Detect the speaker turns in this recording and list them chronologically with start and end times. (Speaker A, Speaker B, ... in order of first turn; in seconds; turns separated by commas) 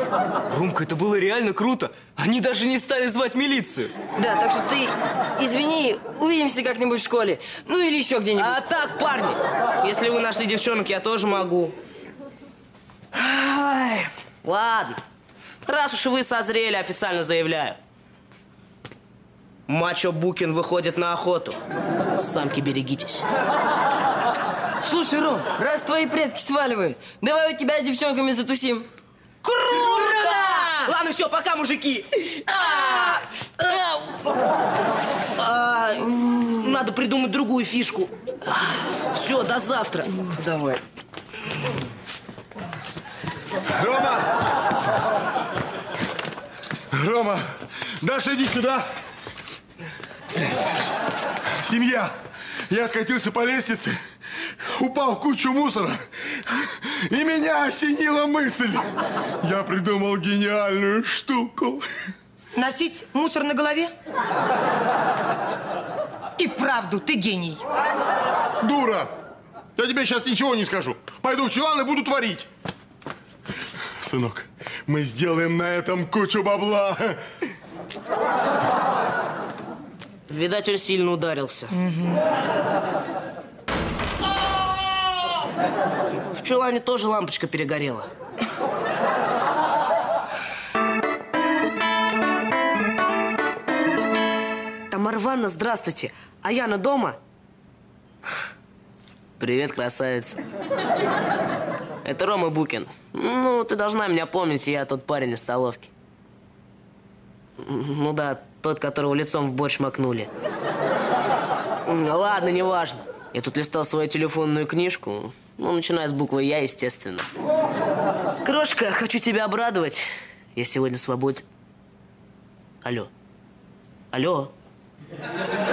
Speaker A: 0.5-3.3, Speaker B: 0.5-3.9, Speaker A: 4.2-8.8, Speaker C: 8.4-11.7, Speaker A: 13.2-14.1, Speaker C: 14.4-15.0, Speaker C: 15.7-17.8, Speaker C: 19.7-21.6, Speaker C: 22.2-23.2, Speaker A: 24.8-28.9, Speaker C: 29.7-33.2, Speaker A: 29.7-30.9, Speaker A: 32.7-33.1, Speaker A: 33.7-34.0, Speaker C: 35.4-38.1, Speaker C: 39.1-40.8, Speaker D: 43.8-44.3, Speaker D: 46.9-48.9, Speaker D: 51.6-52.1, Speaker D: 52.7-54.0, Speaker D: 54.7-61.9, Speaker E: 62.5-63.9, Speaker E: 66.4-67.6, Speaker D: 68.6-69.1, Speaker D: 69.8-72.5, Speaker D: 74.0-77.2, Speaker C: 80.3-81.7, Speaker E: 81.8-82.2, Speaker C: 86.3-88.1, Speaker C: 94.9-97.2, Speaker C: 99.4-100.4, Speaker C: 102.0-105.9, Speaker C: 107.6-110.3, Speaker C: 111.9-117.3, Speaker C: 118.4-121.4, Speaker C: 122.8-123.1, Speaker C: 124.1-124.5